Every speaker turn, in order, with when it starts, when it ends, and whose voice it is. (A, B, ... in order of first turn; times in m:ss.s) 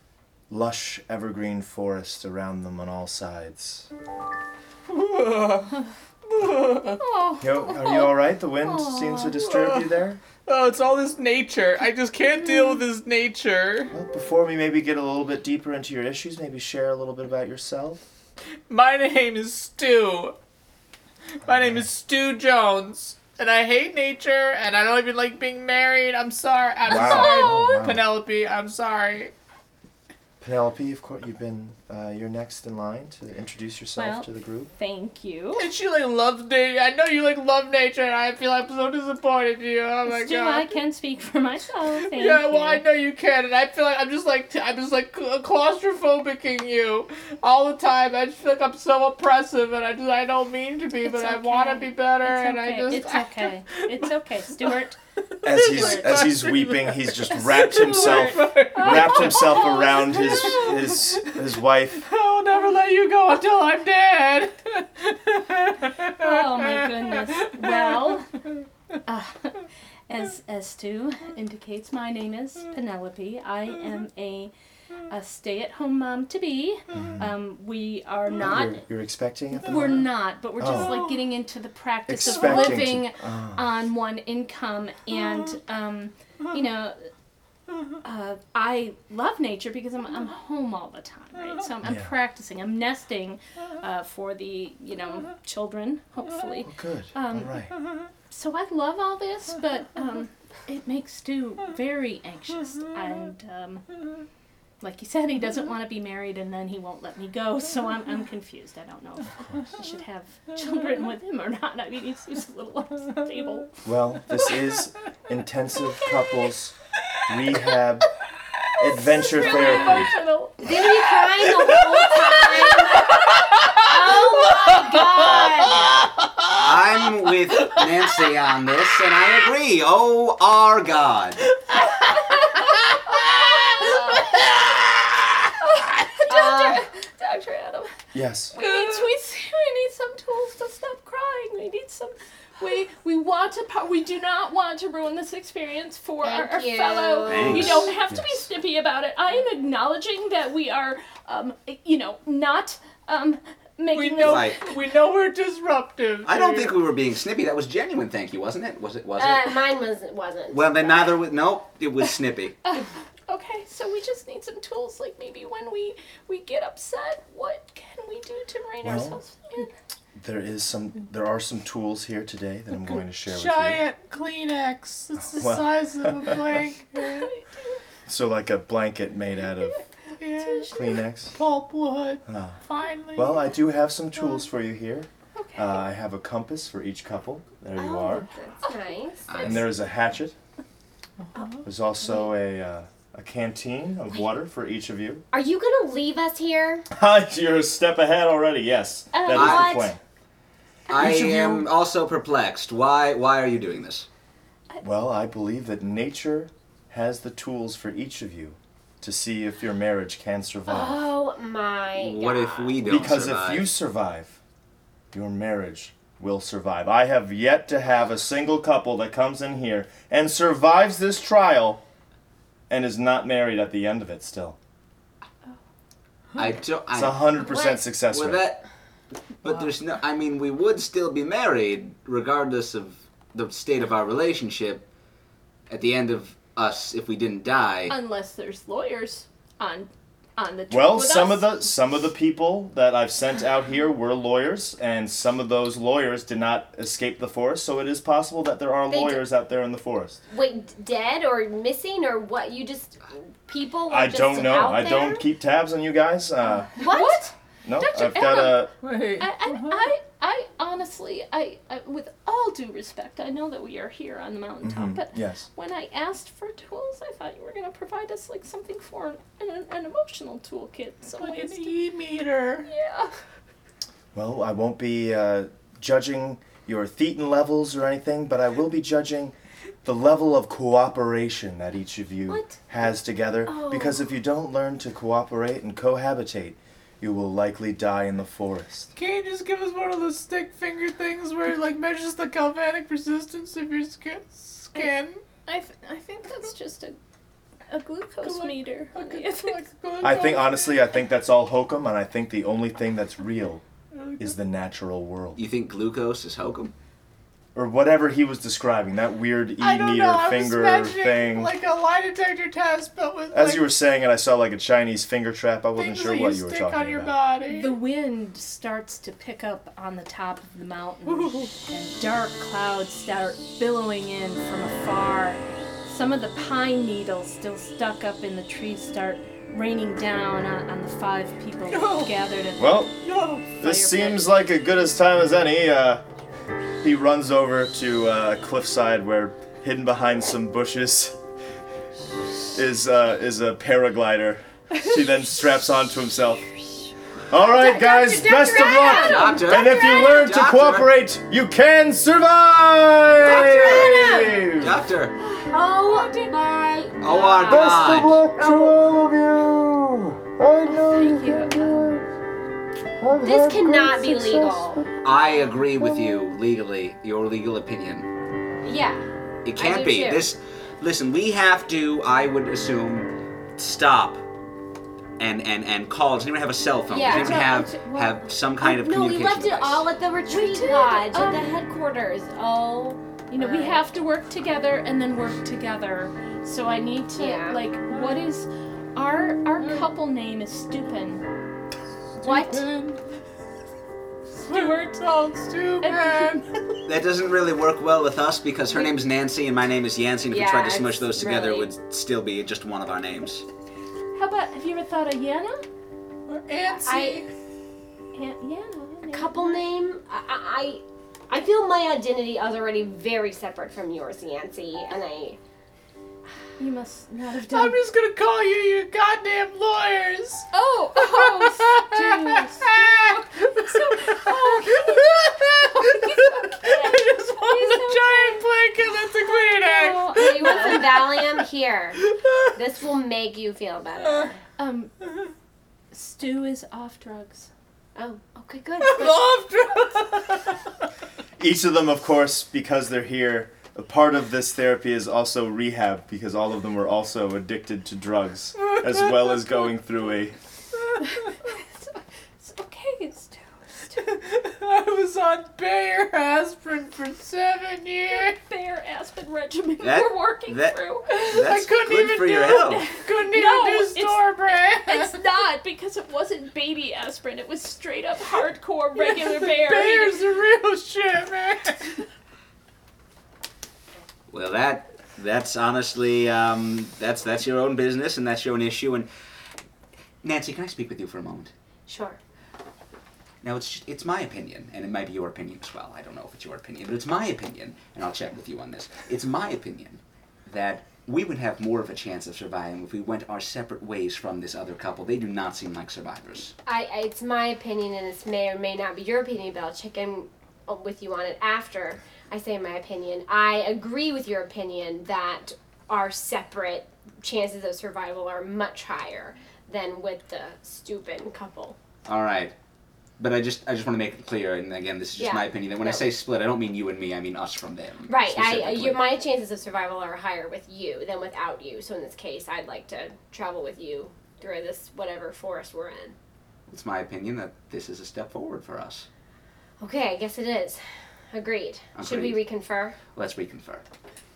0:00.5-0:03.9 A
0:04.9-0:07.0 B
0:07.0-0:09.3 C
0:07.4-0:10.2 A
0:09.2-0:09.9 B
0:10.4-0:13.9 B
0:12.3-0:12.8 C
0:13.9-0:18.0 A
0:18.7-0:20.4 B
0:21.3-0:29.3 B
0:26.9-0:27.8 C
0:26.9-0:28.0 A
0:30.4-0:34.7 A
0:34.0-0:35.7 C
0:35.6-0:40.7 B
0:40.1-0:42.8 C
0:42.0-1:01.4 B
0:51.0-0:55.0 C
0:55.4-1:02.1 A
0:55.6-0:56.3 C
0:57.3-1:00.9 C
1:02.0-1:08.6 B
1:06.1-1:08.3 C
1:09.1-1:14.5 C
1:15.1-1:18.8 C
1:16.9-1:17.3 A
1:18.3-1:21.0 A
1:19.6-1:27.1 C
1:20.6-1:21.2 B
1:22.1-1:23.7 A
1:22.2-1:22.7 B
1:28.0-1:37.7 C
1:31.8-1:32.1 A
1:36.6-1:37.7 A
1:38.3-1:43.8 C
1:44.8-1:53.8 C
1:53.8-1:56.8 A
1:57.3-1:58.1 A
1:58.8-2:00.1 A
1:59.1-2:00.7 C
1:59.3-2:00.1 B
2:00.6-2:03.2 D
2:01.0-2:08.2 B
2:03.8-2:06.0 D
2:06.5-2:11.4 E
2:11.5-2:15.4 B
2:11.8-2:14.5 C
2:15.6-2:17.9 C
2:16.3-2:16.8 D
2:18.1-2:18.6 A
2:18.5-2:34.7 C
2:18.6-2:19.0 B
2:26.2-2:27.9 D
2:27.2-2:27.9 E
2:27.5-2:28.4 A
2:33.9-2:36.8 B
2:34.2-2:34.6 E
2:36.2-2:39.6 E
2:39.2-2:41.1 D
2:40.5-2:42.6 E
2:42.6-2:49.7 C
2:48.8-2:49.2 A
2:50.1-2:53.8 A
2:52.9-2:57.3 B
2:55.2-2:56.6 A
2:56.9-2:57.8 C
2:58.1-2:59.8 A
3:00.2-3:03.5 B
3:00.3-3:01.0 C
3:00.7-3:01.4 A
3:02.2-3:02.6 A
3:03.1-3:08.3 A
3:05.4-3:05.8 C
3:07.8-3:09.3 D
3:09.3-3:09.7 E
3:09.4-3:10.4 A
3:11.2-3:11.6 B
3:11.6-3:15.2 A
3:15.3-3:16.9 D
3:16.9-3:20.0 A
3:19.1-3:19.6 C
3:19.3-3:19.7 E
3:19.3-3:19.9 D
3:20.9-3:24.1 E
3:20.9-3:21.7 A
3:24.8-3:31.1 A
3:30.7-3:32.8 D
3:31.9-3:33.7 E
3:32.8-3:34.4 A
3:35.1-3:41.8 A
3:42.7-3:44.6 A
3:46.4-3:47.4 E
3:46.9-3:48.4 A
3:47.4-3:47.8 D
3:48.1-3:48.7 E
3:49.4-3:54.8 E
3:55.7-3:57.9 E
3:57.9-4:01.5 C
4:00.7-4:10.2 A
4:08.9-4:09.2 D
4:10.3-4:15.2 D
4:13.9-4:16.7 A
4:16.8-4:31.7 C
4:16.8-4:17.3 D
4:17.6-4:18.7 A
4:18.8-4:19.8 B
4:24.6-4:25.4 A
4:31.2-4:32.7 B
4:32.6-4:33.1 C
4:34.1-4:48.9 A
4:42.3-4:42.6 C
4:43.4-4:44.0 C
4:48.9-4:55.2 B
4:55.4-4:57.0 C
4:57.7-4:59.6 C
4:58.2-5:00.8 B
5:00.0-5:03.6 A
5:03.9-5:04.3 B
5:04.2-5:05.4 A
5:05.4-5:06.7 E
5:07.5-5:11.6 A
5:09.6-5:13.7 B
5:13.3-5:17.2 A
5:15.8-5:17.8 B
5:17.5-5:34.4 C
5:21.0-5:21.5 B
5:31.7-5:32.2 B
5:32.6-5:32.9 A
5:33.0-5:33.5 B
5:33.6-5:36.0 A
5:36.8-5:41.2 A
5:42.5-5:46.5 A
5:47.3-5:54.8 A
5:47.4-5:50.1 C
5:48.5-5:49.0 D
5:48.9-5:50.9 E
5:53.2-5:55.2 E
5:53.7-5:54.5 C
5:55.2-5:56.3 C
5:55.5-5:58.1 D
5:57.0-5:58.2 E
5:57.4-6:02.0 A
6:00.6-6:02.0 C
6:03.0-6:04.8 A
6:03.2-6:04.8 D
6:05.0-6:08.1 E
6:08.6-6:10.3 D
6:09.4-6:14.2 E
6:15.2-6:19.9 E
6:16.9-6:17.6 D
6:17.0-6:18.3 C
6:18.6-6:23.8 D
6:20.3-6:21.5 C
6:23.3-6:31.2 C
6:27.2-6:27.6 D
6:27.8-6:28.2 B
6:29.6-6:29.9 B
6:32.2-6:33.0 B
6:32.2-6:32.5 C
6:32.2-6:32.6 D
6:34.4-6:35.0 C
6:34.4-6:36.8 B
6:35.8-6:36.4 C
6:36.8-6:43.4 E
6:40.3-6:41.7 D
6:44.1-6:45.6 C
6:46.3-6:47.3 B
6:46.8-6:47.2 D
6:48.1-6:49.6 C
6:49.1-6:55.4 D
6:56.6-6:57.8 C
6:57.5-7:11.4 B
7:00.5-7:08.4 C
7:09.2-7:10.9 C
7:10.1-7:12.0 D
7:12.0-7:12.5 B
7:12.5-7:14.4 D
7:14.0-7:14.3 B
7:14.6-7:15.0 C
7:15.9-7:17.5 C
7:18.0-7:19.3 D
7:18.8-7:20.7 B
7:21.4-7:30.4 A
7:28.6-7:29.8 B
7:30.9-7:31.4 B
7:31.0-7:34.1 C
7:33.9-7:38.4 B
7:38.1-7:41.1 C
7:39.8-7:42.9 E
7:41.1-7:45.2 B
7:42.6-7:44.3 C
7:44.8-7:50.2 C
7:49.0-7:52.0 B
7:54.3-7:59.1 E
8:00.2-8:01.5 E
8:01.9-8:02.2 D
8:03.4-8:16.5 E
8:16.6-8:31.8 D
8:32.0-8:32.5 E
8:33.2-8:39.0 E
8:35.2-8:36.1 D
8:38.1-8:46.1 D
8:46.7-8:49.1 E
8:49.8-8:53.0 D
8:51.9-8:52.4 E
8:53.1-8:53.8 E